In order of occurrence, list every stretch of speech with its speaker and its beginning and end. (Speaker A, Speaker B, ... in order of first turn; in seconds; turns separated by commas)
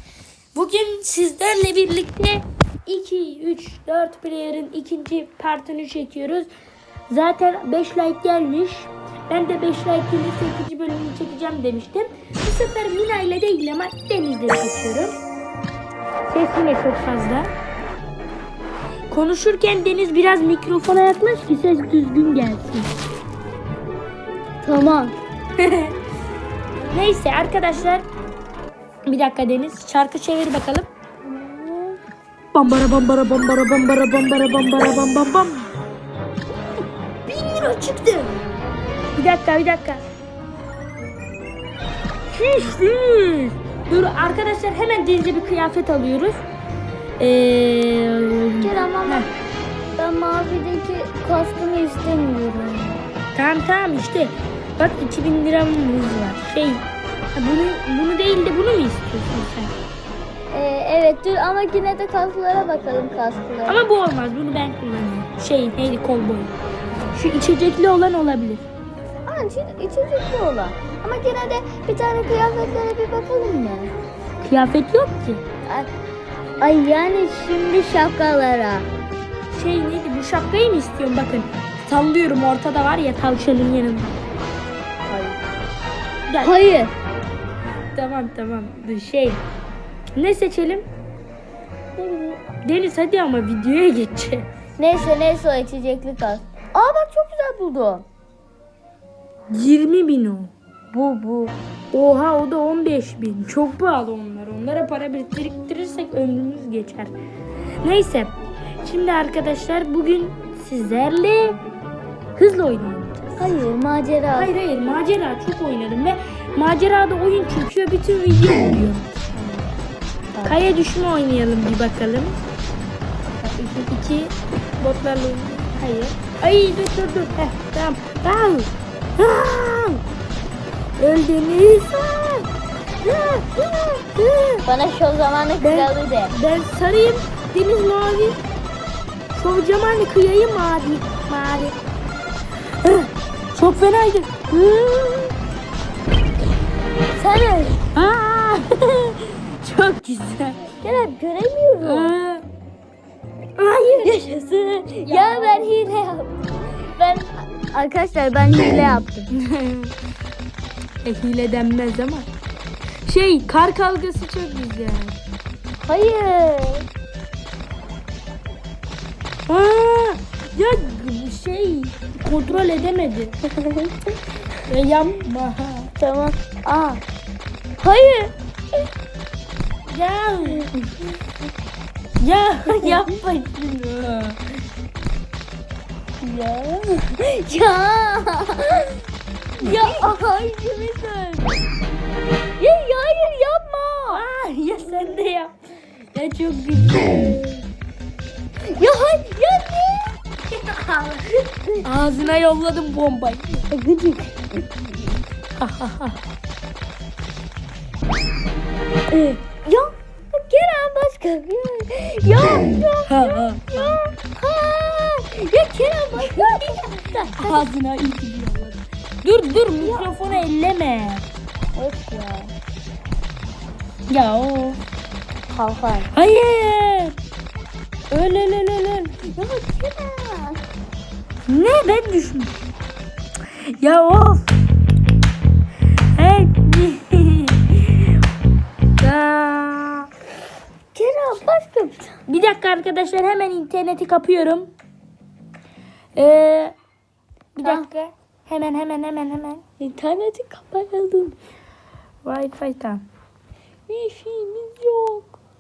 Speaker A: 0.5-6.5, Speaker A: 7.1-15.2, Speaker A: 16.3-17.5, Speaker A: 19.1-22.9, Speaker B: 24.6-25.1, Speaker A: 25.6-25.9, Speaker A: 26.9-28.0, Speaker A: 29.1-30.9, Speaker B: 31.2-32.0, Speaker A: 32.5-35.7, Speaker A: 37.2-38.4, Speaker A: 39.1-40.0, Speaker A: 42.3-46.4, Speaker A: 47.2-49.3, Speaker B: 48.6-49.3, Speaker B: 50.0-53.0, Speaker A: 53.3-59.7, Speaker B: 60.5-63.8, Speaker A: 63.7-66.5, Speaker A: 67.1-68.7, Speaker B: 69.2-73.9, Speaker A: 74.4-75.4, Speaker B: 76.6-78.9, Speaker A: 79.5-84.1, Speaker B: 85.0-85.4, Speaker A: 86.3-86.5, Speaker B: 86.4-87.0, Speaker A: 87.9-89.4, Speaker A: 90.1-90.8, Speaker A: 92.0-94.5, Speaker B: 94.8-98.0, Speaker A: 99.5-100.5, Speaker B: 100.9-101.5, Speaker A: 101.9-107.1, Speaker A: 107.8-111.6, Speaker A: 112.3-113.6, Speaker B: 113.4-114.5, Speaker A: 114.3-119.1, Speaker B: 119.3-119.7, Speaker A: 120.4-122.4, Speaker A: 123.4-130.0, Speaker A: 131.0-132.5, Speaker A: 133.0-134.7, Speaker B: 134.7-136.3, Speaker A: 135.6-138.4, Speaker A: 139.3-141.8, Speaker A: 142.8-145.3, Speaker B: 147.1-147.8, Speaker A: 147.9-150.8, Speaker B: 150.8-152.2, Speaker A: 151.8-152.4, Speaker A: 153.6-155.7, Speaker B: 154.0-154.3, Speaker B: 155.0-159.3, Speaker A: 159.3-159.9, Speaker A: 161.0-162.3, Speaker A: 163.0-165.2, Speaker B: 165.8-166.9, Speaker A: 169.5-173.3, Speaker B: 173.6-174.1, Speaker A: 174.7-175.9, Speaker B: 176.0-177.0, Speaker B: 177.8-178.3, Speaker A: 179.9-180.7, Speaker A: 182.2-184.6, Speaker B: 186.2-189.0, Speaker B: 189.6-190.6, Speaker A: 189.6-191.5, Speaker B: 192.6-194.2, Speaker A: 194.1-195.5, Speaker A: 196.1-197.5, Speaker B: 198.7-200.2, Speaker A: 200.6-201.0, Speaker B: 200.8-201.8, Speaker A: 201.8-203.7, Speaker B: 203.7-204.7, Speaker A: 205.6-206.2, Speaker B: 209.1-217.7, Speaker A: 213.1-213.9, Speaker A: 216.2-221.2, Speaker B: 219.8-220.3, Speaker B: 221.8-222.5, Speaker A: 224.1-224.8, Speaker B: 225.5-226.1, Speaker A: 226.1-227.2, Speaker A: 228.1-229.1, Speaker B: 229.3-230.6, Speaker A: 231.5-232.5, Speaker A: 233.6-234.5, Speaker A: 236.1-238.2, Speaker A: 239.0-240.1, Speaker B: 240.9-242.2, Speaker A: 242.3-244.7, Speaker A: 246.1-246.8, Speaker A: 247.6-249.6, Speaker B: 247.6-247.9, Speaker B: 249.8-251.4, Speaker A: 252.2-253.0, Speaker B: 253.9-255.3